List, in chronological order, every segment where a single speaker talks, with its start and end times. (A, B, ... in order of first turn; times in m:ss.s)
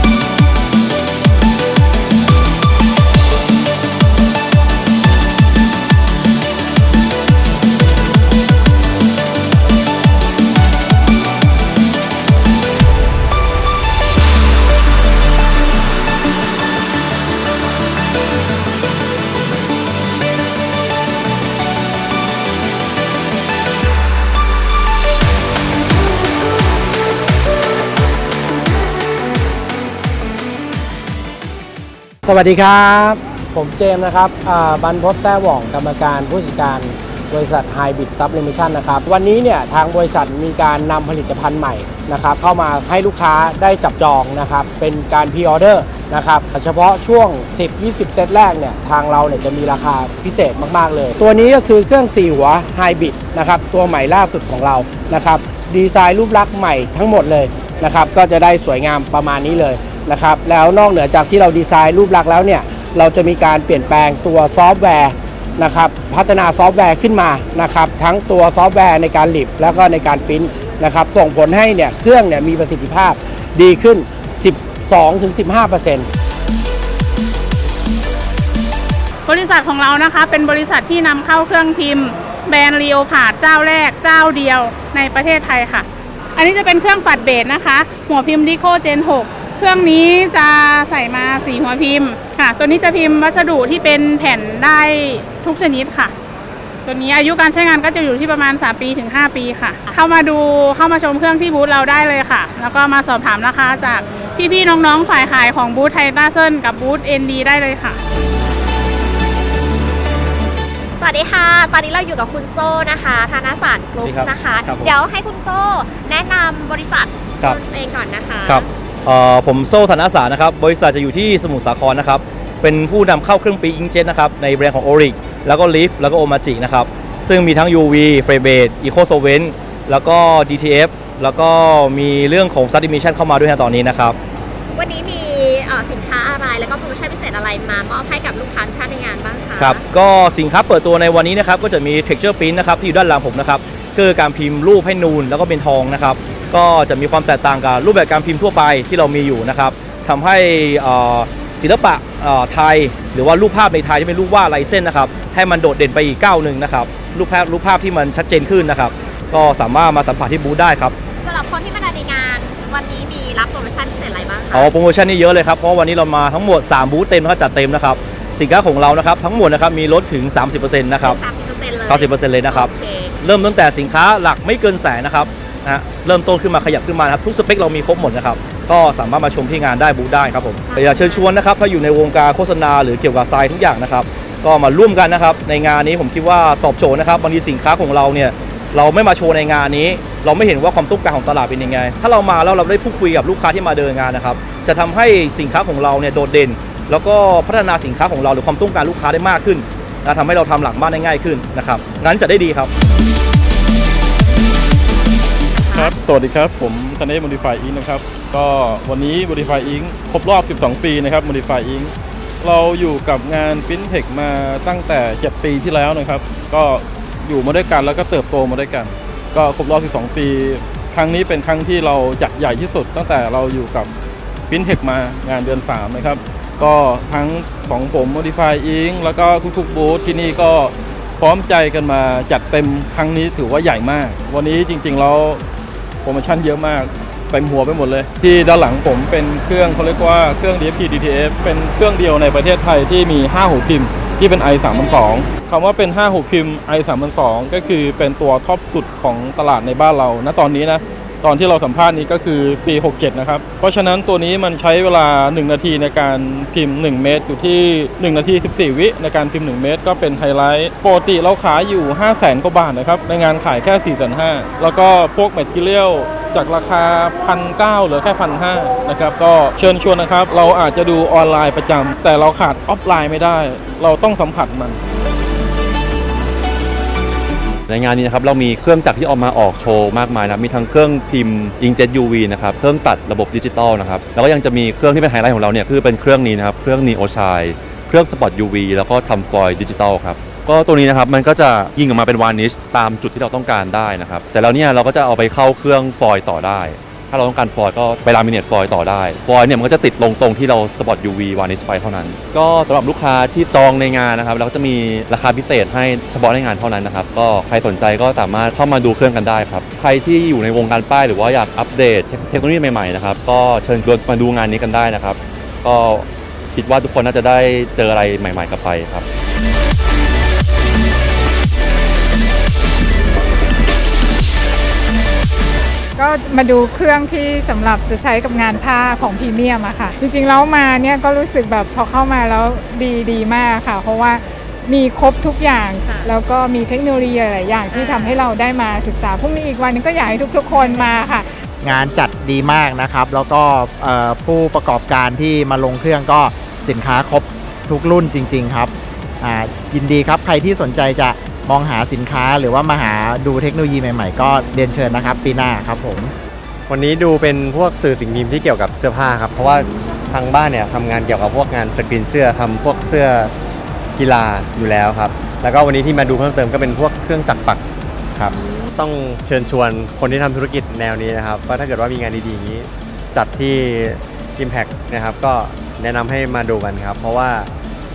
0:32.3-1:16.1 A
1:19.3-1:36.1 B
1:36.8-1:48.0 B
1:51.0-1:58.7 C
1:54.0-1:54.9 D
1:58.4-2:14.2 D
2:14.8-2:19.8 C
2:19.6-2:41.0 D
2:41.2-2:44.7 C
2:44.5-2:51.2 D
2:51.0-2:53.2 C
2:51.8-3:22.7 D
3:00.7-3:01.3 C
3:25.6-3:25.9 C
3:25.7-3:43.9 E
3:44.5-3:55.4 E
3:56.0-4:34.8 E
4:37.7-5:19.0 F
5:26.0-5:41.3 G
5:37.7-5:38.2 C
5:41.6-5:56.1 H
5:56.7-6:03.3 I
6:04.0-6:07.6 I
6:08.2-6:17.5 I